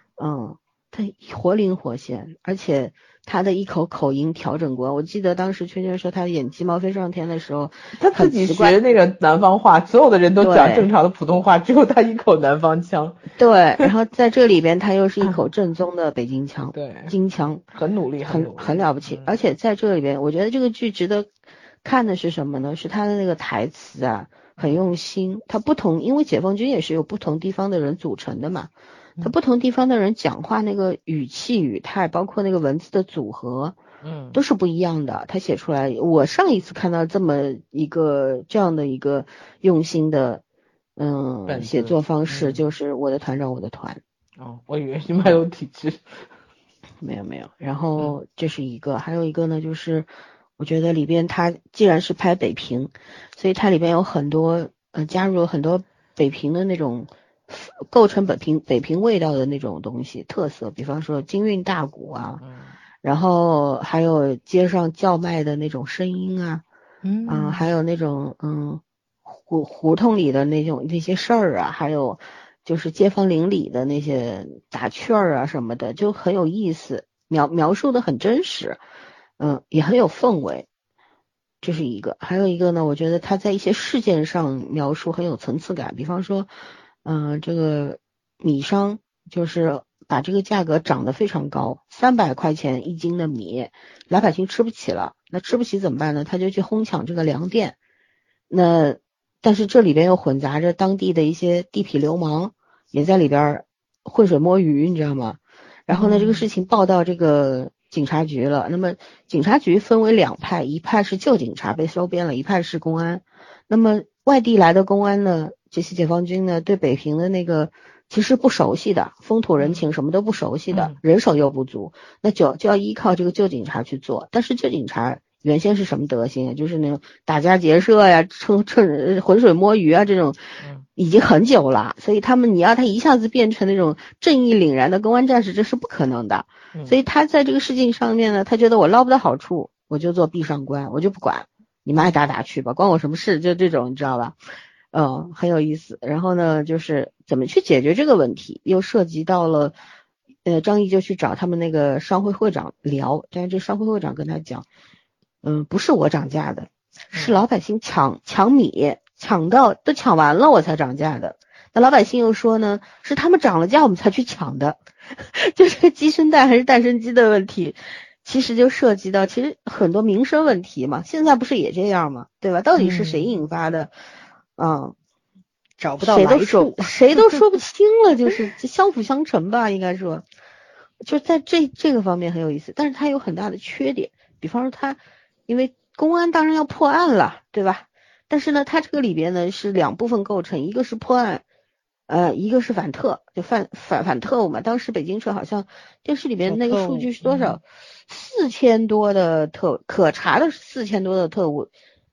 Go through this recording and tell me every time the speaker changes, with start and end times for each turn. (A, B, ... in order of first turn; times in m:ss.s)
0:00.2-0:08.8 A
0:08.0-0:13.2 B
0:10.4-0:10.9 A
0:13.4-0:17.6 A
0:16.7-0:17.1 B
0:17.7-0:19.3 B
0:18.3-0:21.3 A
0:21.8-0:28.7 A
0:29.2-0:33.8 A
0:34.0-0:34.4 B
0:34.3-0:40.4 A
0:41.0-0:44.0 A
0:41.5-0:42.6 B
0:44.4-0:46.3 B
0:47.0-1:02.4 A
1:02.4-1:02.8 B
1:03.0-1:06.6 A
1:07.0-1:07.6 C
1:07.3-1:18.8 A
1:19.4-1:20.6 A
1:21.6-1:26.5 A
1:27.0-1:37.8 A
1:38.5-2:24.4 A
1:45.9-1:46.3 C
2:00.7-2:01.0 B
2:24.9-2:29.8 A
2:30.4-2:34.6 A
2:35.4-2:53.9 A
2:37.1-2:37.4 B
2:52.8-2:53.3 C
2:54.6-2:54.9 A
2:55.8-2:57.4 C
2:56.0-3:00.2 A
3:01.0-3:11.4 A
3:12.1-3:21.7 A
3:16.4-3:17.6 C